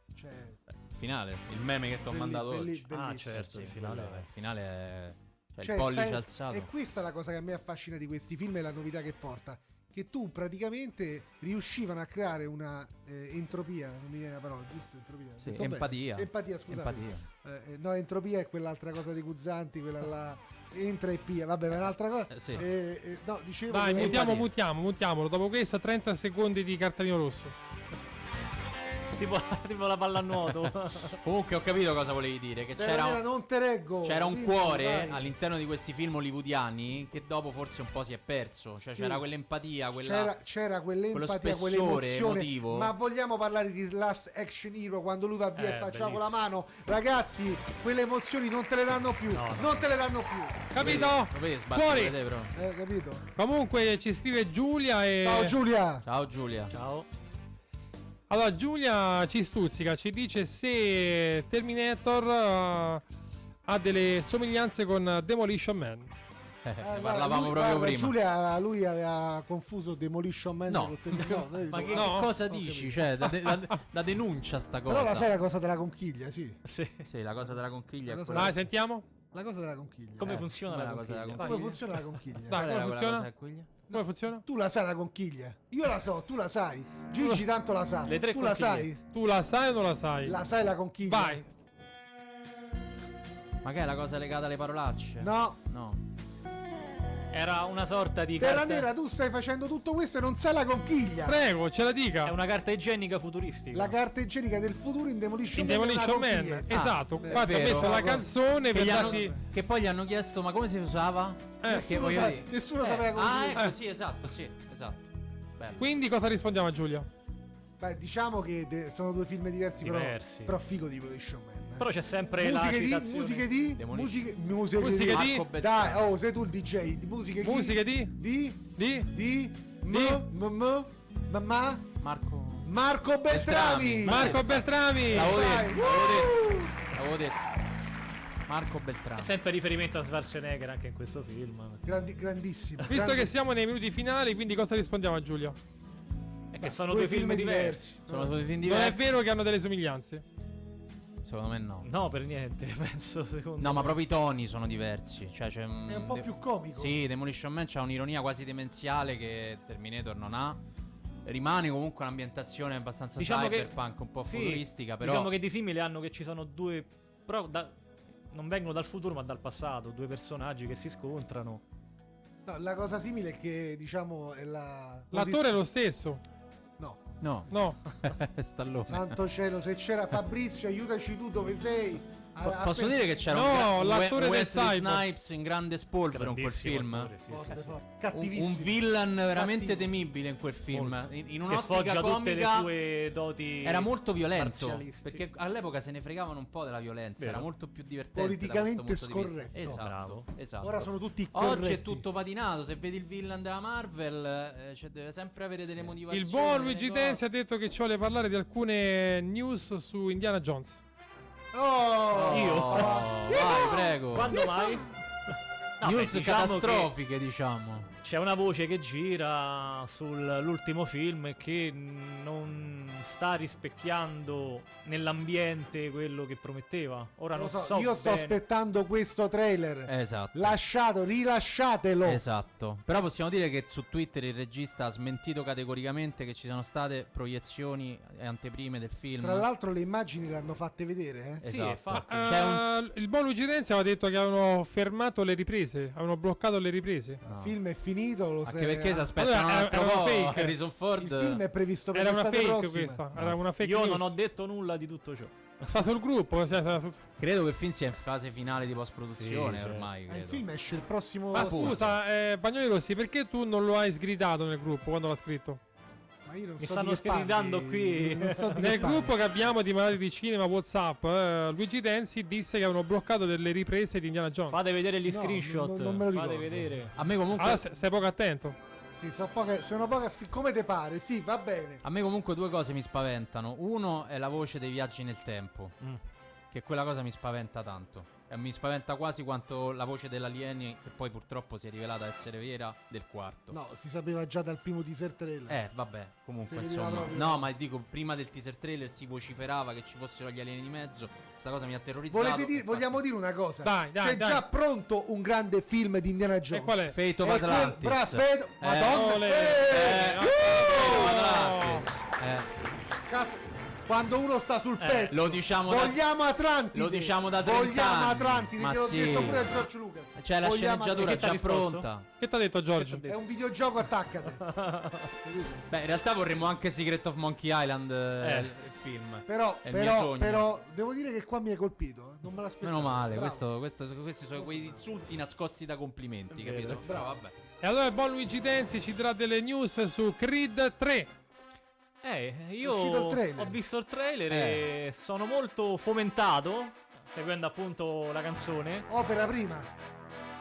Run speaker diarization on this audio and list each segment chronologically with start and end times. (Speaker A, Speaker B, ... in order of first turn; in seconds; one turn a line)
Speaker A: 0.1-0.6
Speaker B: 0.9-6.7
Speaker A: 2.1-3.4
Speaker C: 2.9-4.3
Speaker A: 5.6-24.5
Speaker B: 15.4-17.3
Speaker B: 22.3-22.6
Speaker D: 23.7-27.6
Speaker B: 24.0-24.5
Speaker C: 29.2-31.2
Speaker B: 31.2-33.2
Speaker A: 32.8-35.3
Speaker B: 34.0-40.4
Speaker A: 38.9-39.2
Speaker A: 39.9-51.1
Speaker B: 41.1-42.9
Speaker C: 45.6-46.4
Speaker C: 49.3-49.9
Speaker D: 50.7-52.2
Speaker B: 50.8-52.5
Speaker A: 52.5-53.3
Speaker D: 53.4-55.6
Speaker A: 55.2-56.0
Speaker B: 56.0-56.7
Speaker C: 56.7-57.1
Speaker D: 58.3-63.0
Speaker D: 63.7-66.1
Speaker B: 66.7-68.2
Speaker A: 66.8-73.2
Speaker B: 70.7-75.3
Speaker D: 71.9-72.3
Speaker A: 74.9-76.6
Speaker C: 76.7-77.1
Speaker B: 77.1-78.5
Speaker A: 78.1-78.6
Speaker D: 78.3-79.1
Speaker A: 79.3-80.5
Speaker C: 80.2-81.7
Speaker B: 80.2-81.6
Speaker D: 81.4-81.7
Speaker A: 81.4-82.6
Speaker D: 82.5-83.3
Speaker B: 82.5-83.7
Speaker D: 83.9-84.4
Speaker A: 83.9-89.0
Speaker C: 88.0-89.0
Speaker D: 89.1-90.4
Speaker A: 90.2-91.5
Speaker D: 91.1-91.5
Speaker B: 93.6-96.0
Speaker A: 95.2-95.6
Speaker C: 97.3-98.9
Speaker A: 98.4-101.4
Speaker D: 101.3-102.3
Speaker C: 102.2-104.0
Speaker A: 103.7-109.4
Speaker D: 105.5-109.4
Speaker B: 106.7-115.8
Speaker D: 111.6-111.9
Speaker A: 111.7-113.7
Speaker D: 115.8-117.1
Speaker A: 117.8-132.0
Speaker C: 119.8-120.6
Speaker C: 121.8-123.5
Speaker B: 123.8-124.3
Speaker D: 124.8-125.5
Speaker B: 125.1-126.1
Speaker D: 127.4-128.1
Speaker D: 128.8-129.1
Speaker D: 129.9-130.2
Speaker B: 132.0-132.7
Speaker A: 132.6-134.4
Speaker B: 133.3-137.5
Speaker D: 134.1-135.4
Speaker A: 135.1-136.7
Speaker B: 138.5-139.3
Speaker C: 139.2-141.8
Speaker A: 141.8-143.3
Speaker D: 142.9-145.6
Speaker C: 146.5-147.8
Speaker A: 146.6-148.4
Speaker B: 148.1-149.1
Speaker D: 148.6-150.2
Speaker B: 151.2-151.9
Speaker C: 151.8-154.0
Speaker B: 153.6-160.6
Speaker A: 155.9-157.0
Speaker B: 161.2-165.3
Speaker C: 163.2-163.7
Speaker C: 164.2-167.8
Speaker C: 168.3-171.6
Speaker A: 172.4-175.6
Speaker D: 175.1-176.2
Speaker A: 176.8-177.2
Speaker B: 177.2-179.2
Speaker D: 177.5-177.8
Speaker A: 178.9-183.2
Speaker B: 182.4-187.1
Speaker D: 183.3-185.0
Speaker C: 186.1-187.8
Speaker A: 187.3-189.9
Speaker B: 188.1-192.7
Speaker C: 190.7-195.2
Speaker B: 193.6-207.2
Speaker C: 197.2-197.5
Speaker A: 198.1-199.8
Speaker C: 199.7-200.3
Speaker A: 200.6-202.1
Speaker D: 206.1-210.8
Speaker A: 211.5-213.7
Speaker B: 212.1-214.4
Speaker C: 212.3-214.9
Speaker C: 215.8-216.9
Speaker B: 215.8-217.9
Speaker C: 218.0-228.4
Speaker A: 227.3-232.2
Speaker B: 229.9-230.6
Speaker B: 232.0-239.5
Speaker A: 239.2-241.4
Speaker C: 241.4-242.2
Speaker B: 241.4-242.7
Speaker D: 241.9-247.2
Speaker A: 247.2-249.1
Speaker B: 247.3-247.6
Speaker B: 248.4-251.4
Speaker D: 249.2-250.5
Speaker A: 251.0-253.1
Speaker D: 251.9-254.2
Speaker C: 253.6-255.7
Speaker D: 255.7-257.0
Speaker B: 257.2-260.4
Speaker C: 259.1-259.9
Speaker A: 260.1-261.8
Speaker D: 261.3-265.6
Speaker B: 261.4-261.9
Speaker A: 266.2-269.1
Speaker C: 266.6-268.8
Speaker D: 268.6-274.6
Speaker C: 274.5-276.9
Speaker A: 275.1-276.8
Speaker B: 277.0-277.6
Speaker D: 277.4-278.6
Speaker A: 279.0-281.8
Speaker B: 281.8-285.8
Speaker B: 286.5-293.6
Speaker A: 293.5-295.6
Speaker B: 295.5-303.0
Speaker A: 296.5-297.5
Speaker A: 302.1-311.1
Speaker D: 303.6-304.4
Speaker D: 306.5-307.0
Speaker B: 306.9-312.5
Speaker D: 308.8-311.9
Speaker A: 312.9-321.3
Speaker C: 314.8-315.1
Speaker B: 315.1-316.1
Speaker B: 316.7-319.6
Speaker B: 320.2-322.1
Speaker C: 321.0-321.9
Speaker D: 322.2-323.1
Speaker C: 322.8-323.2
Speaker A: 323.1-324.5
Speaker C: 324.4-325.1
Speaker A: 325.2-325.7
Speaker B: 325.7-330.5
Speaker C: 328.2-328.5
Speaker A: 329.3-333.5
Speaker B: 332.6-337.3
Speaker A: 334.4-334.9
Speaker C: 336.3-336.9
Speaker A: 336.8-337.2
Speaker D: 337.6-341.1
Speaker C: 342.0-348.9
Speaker A: 342.6-343.6
Speaker B: 344.3-344.7
Speaker A: 348.9-349.7